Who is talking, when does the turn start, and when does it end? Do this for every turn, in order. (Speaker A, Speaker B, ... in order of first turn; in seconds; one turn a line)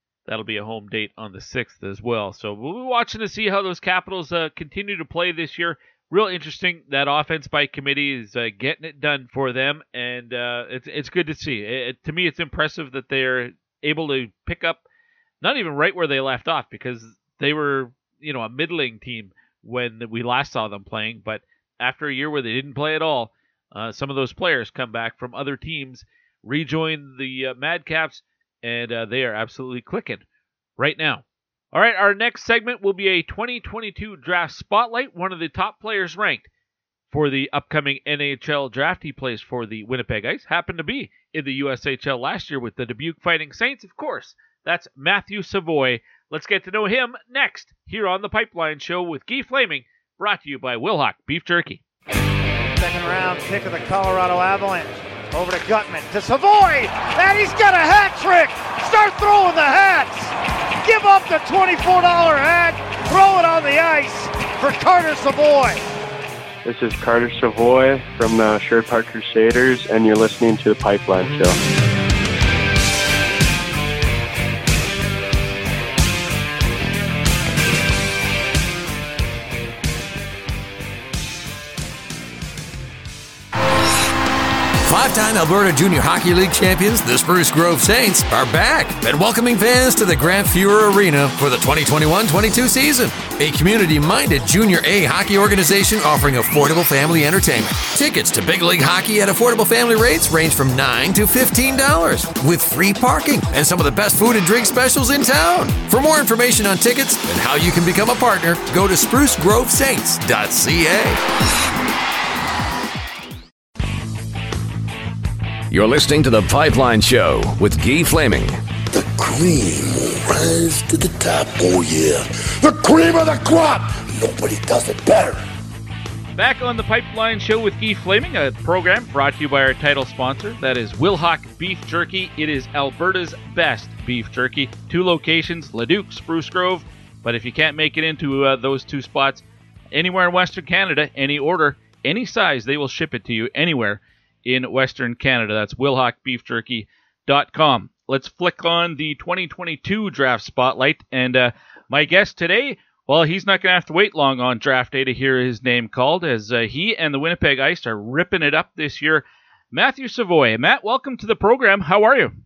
Speaker A: 0.3-14.8
Speaker A: 15.4-30.2
Speaker A: 30.8-36.5
Speaker A: 37.1-51.8
Speaker B: 52.8-65.8
Speaker C: 66.6-71.6
Speaker D: 84.8-111.2
Speaker E: 115.7-118.6
Speaker F: 118.9-125.4
Speaker A: 126.3-162.3